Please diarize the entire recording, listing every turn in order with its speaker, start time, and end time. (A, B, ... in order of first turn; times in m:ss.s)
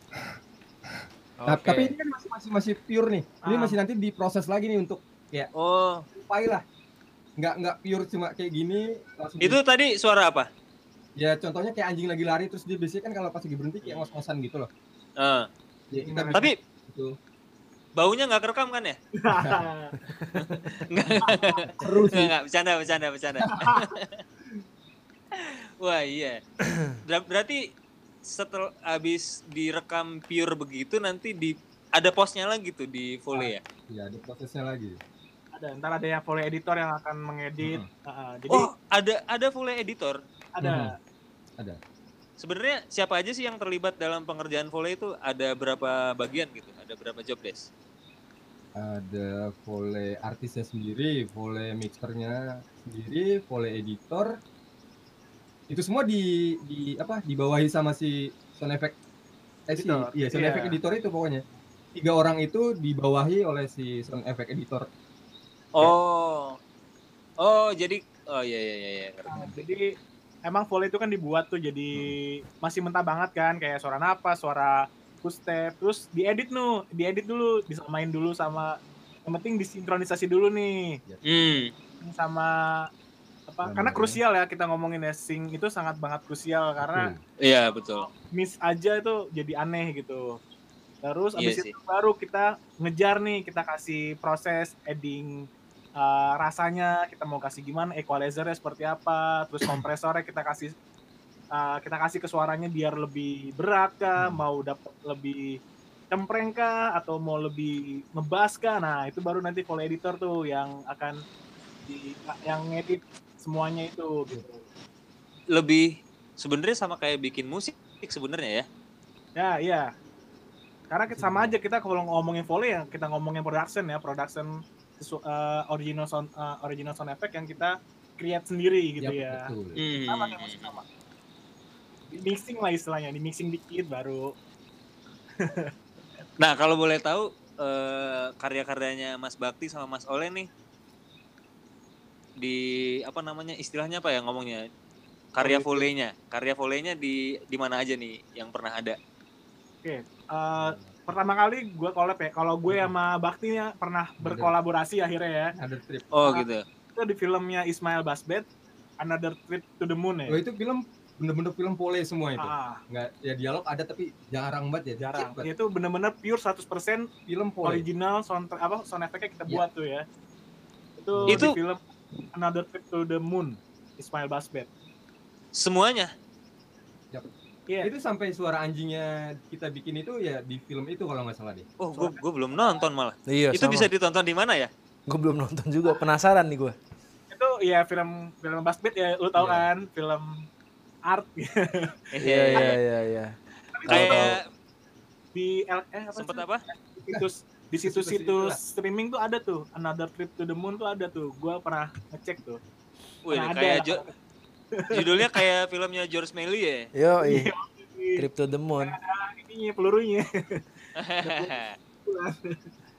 0:01.4-0:01.9 A
0:01.5-0:05.5 B
0:03.4-0:03.8 C
0:05.5-0:06.0 D
0:06.1-0:06.6 B
0:07.4-0:09.6 B
0:09.4-0:10.5 D
0:11.2-0:14.7 B
0:13.8-0:14.1 D
0:15.2-0:15.5 D
0:15.9-0:17.1 B
0:16.0-0:16.5 C
0:18.0-0:19.0 D
0:19.2-0:19.9 C
0:19.3-0:19.6 B
0:20.0-0:20.8 A
0:20.4-0:24.2 D
0:21.2-0:21.7 C
0:21.8-0:22.3 B
0:23.4-0:23.9 C
0:25.3-0:26.4 D
0:27.0-0:27.6 D
0:28.3-0:33.6 D
0:33.3-0:35.0 B
0:35.5-0:38.7 C
0:37.6-0:37.9 B
0:38.5-0:40.2 D
0:40.5-0:41.0 C
0:40.6-0:40.9 B
0:42.4-0:47.7 D
0:48.8-0:54.3 B
0:55.7-0:58.9 B
0:59.7-1:01.4 B
0:59.7-1:00.7 C
1:02.0-1:04.9 B
1:05.7-1:06.6 D
1:07.4-1:09.5 D
1:09.3-1:09.9 C
1:10.4-1:21.0 C
1:21.2-1:21.7 D
1:22.0-1:22.9 C
1:23.5-1:27.1 C
1:23.6-1:24.2 B
1:26.8-1:27.2 B
1:27.4-1:28.1 D
1:28.1-1:30.4 C
1:31.0-1:35.4 C
1:31.4-1:31.7 D
1:36.0-1:40.7 C
1:41.5-1:45.6 C
1:46.1-1:51.2 C
1:51.8-1:54.6 C
1:55.5-1:58.6 D
1:59.3-1:59.9 C
2:00.9-2:09.5 C
2:01.1-2:01.6 B
2:09.0-2:09.8 B
2:09.8-2:10.7 D
2:10.0-2:10.8 C
2:12.1-2:14.3 C
2:15.4-2:15.7 C
2:16.4-2:20.5 D
2:22.4-2:24.6 D
2:25.3-2:29.0 D
2:25.4-2:25.9 C
2:29.8-2:35.5 C
2:30.6-2:31.0 B
2:32.7-2:32.9 B
2:34.2-2:34.5 B
2:35.6-2:36.1 B
2:36.1-2:36.6 D
2:36.2-2:38.4 C
2:39.0-2:40.4 C
2:40.3-2:45.5 B
2:42.4-2:42.8 C
2:45.0-2:47.1 C
2:47.3-2:47.8 B
2:47.6-2:50.0 C
2:51.0-2:51.8 C
2:51.1-2:51.5 B
2:51.3-2:51.6 D
2:52.3-2:54.7 C
2:55.6-2:56.1 D
2:57.8-3:01.6 B
3:01.8-3:04.7 D
3:01.9-3:02.8 C
3:03.3-3:03.9 A
3:05.1-3:06.8 A
3:07.3-3:10.4 C
3:09.4-3:09.7 B
3:11.0-3:12.0 C
3:12.1-3:12.8 D
3:12.2-3:13.3 A
3:13.7-3:14.4 C
3:13.9-3:14.4 A
3:13.9-3:14.4 D
3:15.3-3:22.6 C
3:16.2-3:16.6 D
3:17.8-3:18.6 B
3:23.2-3:24.0 D
3:23.3-3:24.1 C
3:24.7-3:25.3 C
3:24.9-3:26.9 D
3:26.9-3:27.5 A
3:27.2-3:28.3 C
3:28.2-3:28.9 A
3:28.8-3:30.6 C
3:31.0-3:31.7 D
3:31.2-3:31.5 C
3:32.0-3:32.7 C